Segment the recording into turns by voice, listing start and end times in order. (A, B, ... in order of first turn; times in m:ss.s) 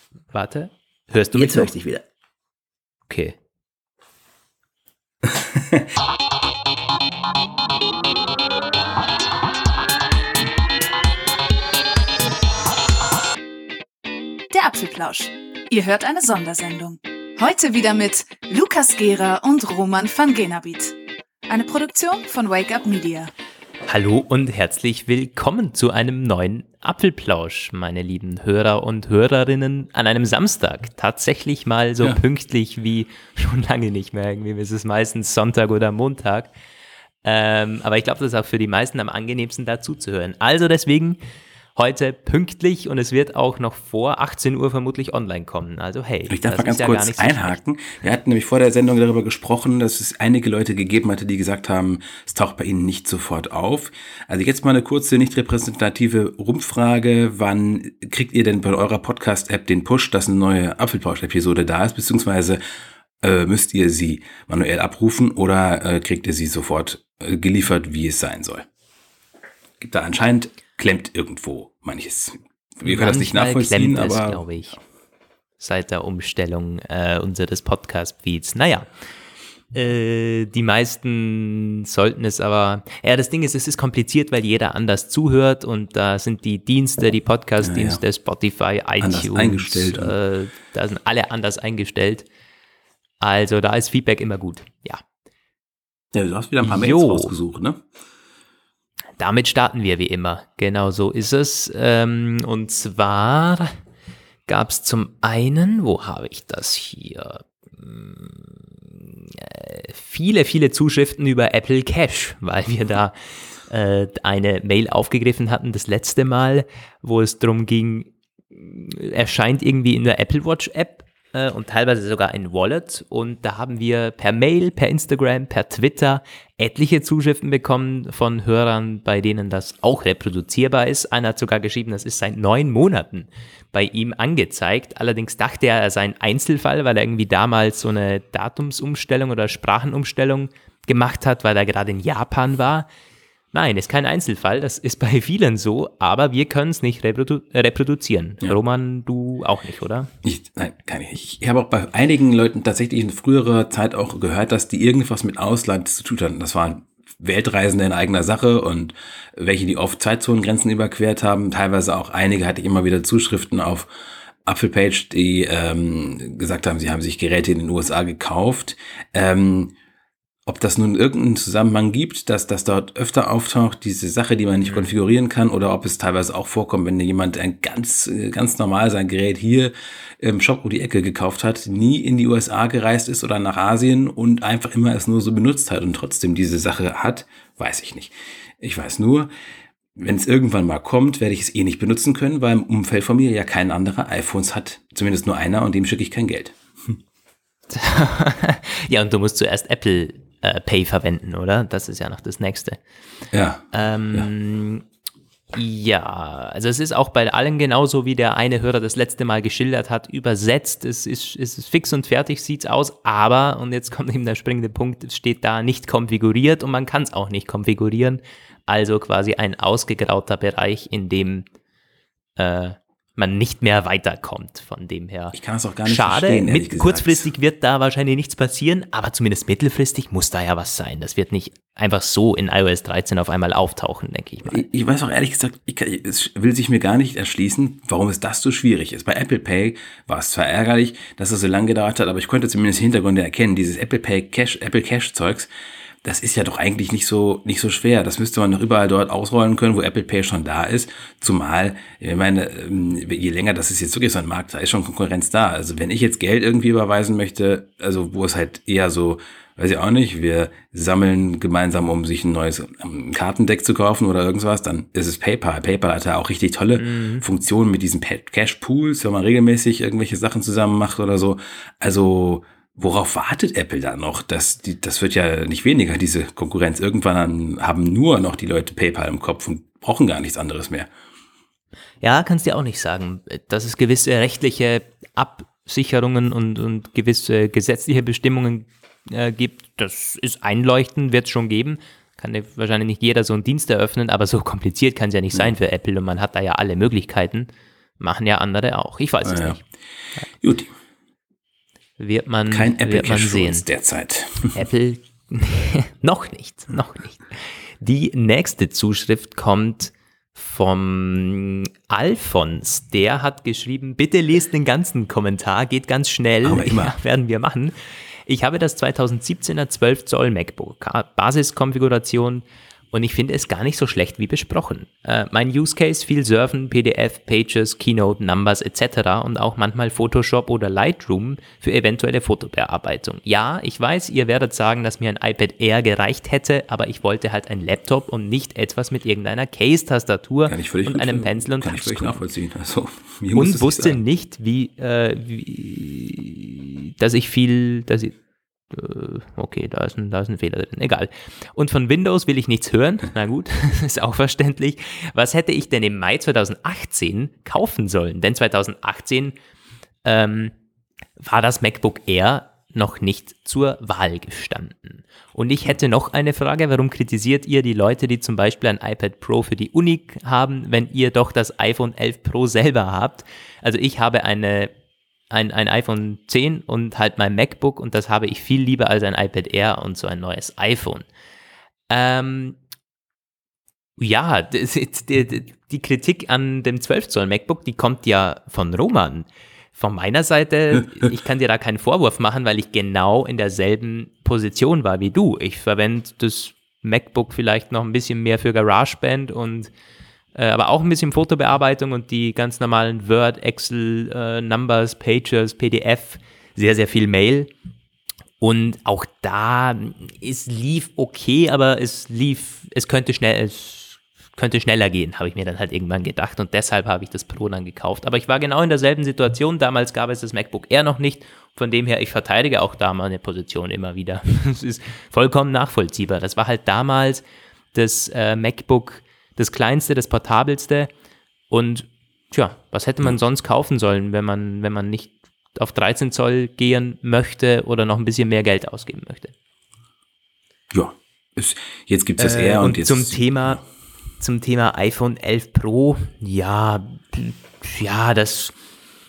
0:00.3-0:01.7 A
0:01.4-0:02.0 B
0:03.1-0:03.4 A
0:05.2-0:05.8 B
0:14.5-0:21.0 C
0:21.5-0:23.3 C
0:23.9-0:36.5 A
0:37.2-0:41.2 A
0:41.8-0:47.6 A
0:46.3-1:02.6 B
1:03.2-1:08.7 B
1:09.8-1:14.4 B
1:12.8-1:14.8 A
1:15.6-1:18.9 A
1:19.7-1:32.3 A
1:27.6-1:28.0 B
1:29.0-1:30.2 B
1:33.2-1:35.0 A
1:36.1-1:37.8 B
1:36.6-1:37.3 A
1:39.2-1:43.8 A
1:44.5-2:22.9 A
2:23.5-2:30.1 A
2:30.2-2:43.9 B
2:44.4-2:49.7 B
2:50.5-3:09.3 B
3:10.0-3:17.0 B
3:17.7-3:22.8 A
3:23.3-3:24.3 B
3:23.7-3:24.8 A
3:25.5-3:41.5 A
3:42.4-3:54.6 A
3:45.3-3:47.3 B
3:54.5-4:05.5 B
4:06.0-4:40.9 B
4:26.8-4:27.2 A
4:42.0-4:59.6 A
4:59.2-4:59.6 B
5:00.4-5:00.7 B
5:02.0-5:03.7 A
5:02.5-5:04.6 B
5:04.5-5:17.7 A
5:16.4-5:17.0 B
5:18.3-5:42.2 A
5:40.5-5:44.0 B
5:43.3-5:48.2 A
5:48.7-5:59.4 A
6:00.0-6:00.5 A
6:01.2-6:14.7 A
6:15.3-6:21.1 A
6:21.9-6:22.6 A
6:24.0-6:39.7 A
6:40.4-6:47.5 A
6:48.4-7:10.9 A
7:11.5-7:19.3 A
7:20.7-7:23.6 B
7:22.2-7:23.6 A
7:24.2-7:28.5 A